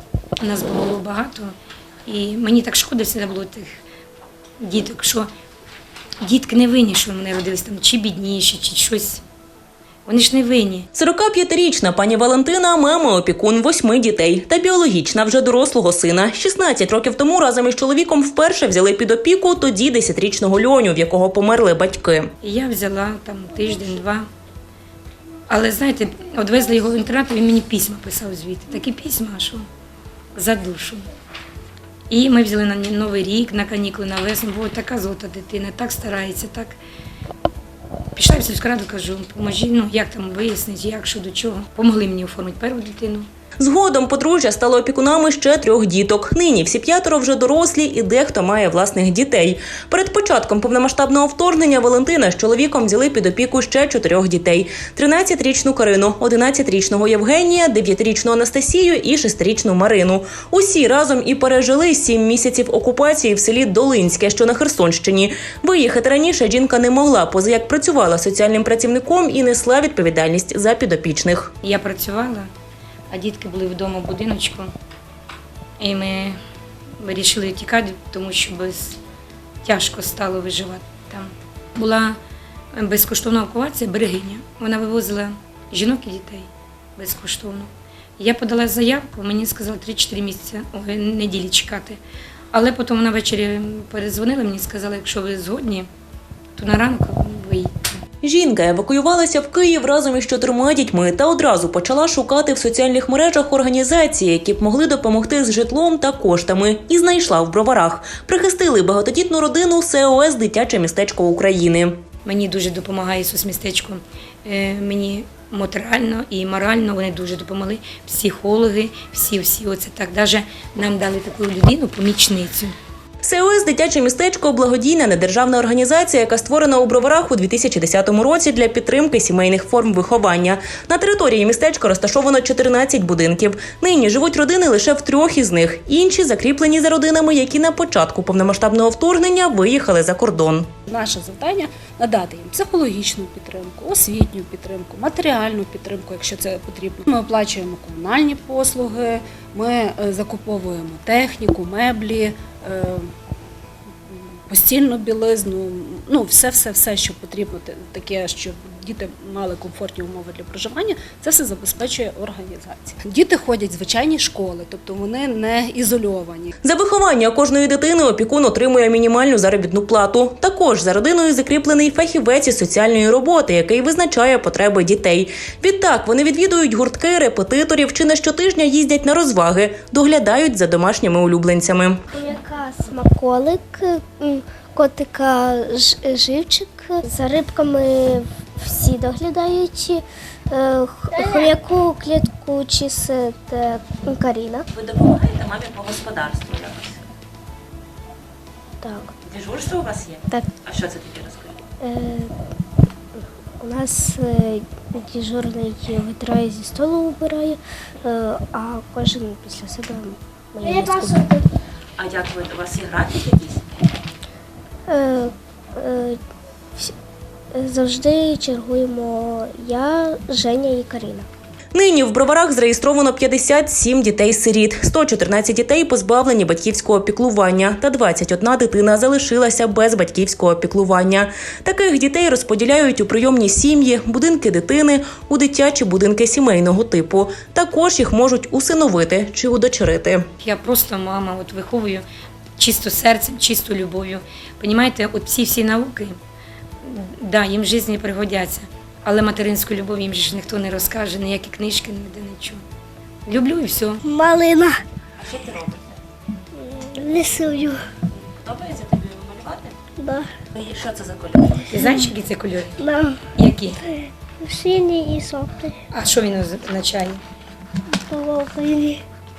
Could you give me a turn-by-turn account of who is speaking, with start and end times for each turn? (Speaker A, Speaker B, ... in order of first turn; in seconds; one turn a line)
Speaker A: 0.4-1.5
Speaker A: 2.0-3.8
Speaker A: 4.6-5.3
Speaker A: 6.2-9.2
Speaker A: 10.1-10.9
Speaker B: 10.9-22.3
Speaker A: 22.4-24.3
Speaker A: 25.5-29.6
Speaker A: 30.3-31.1
Speaker A: 32.1-36.8
Speaker A: 38.1-43.3
Speaker B: 43.6-71.5
Speaker A: 71.6-72.5
Speaker A: 73.1-74.7
Speaker A: 75.8-76.4
Speaker A: 77.0-79.0
Speaker A: 79.6-82.2
Speaker A: 82.7-92.0
Speaker A: 92.5-95.9
Speaker A: 96.5-97.7
Speaker B: 98.2-112.0
Speaker A: 112.2-122.7
Speaker B: 123.2-140.7
Speaker C: 140.9-153.1
Speaker C: 154.1-166.5
Speaker B: 166.6-182.0
Speaker D: 182.1-194.7
Speaker B: 194.7-197.0
Speaker D: 198.8-199.1
Speaker B: 199.3-201.6
Speaker D: 201.8-202.3
Speaker D: 203.1-211.4
Speaker B: 212.0-213.6
Speaker D: 214.9-216.2
Speaker D: 217.5-221.3
Speaker B: 221.7-240.2
Speaker A: 240.4-242.0
Speaker A: 242.6-246.2
Speaker A: 246.8-252.6
Speaker A: 253.2-254.0
Speaker D: 254.0-254.8
Speaker B: 255.2-255.9
Speaker D: 256.5-257.8
Speaker B: 258.4-259.7
Speaker D: 260.0-260.3
Speaker B: 260.6-261.7
Speaker D: 261.7-262.1
Speaker A: 261.7-262.8
Speaker D: 262.8-263.2
Speaker A: 263.4-263.8
Speaker D: 263.8-265.8
Speaker A: 265.9-267.2
Speaker D: 267.9-269.0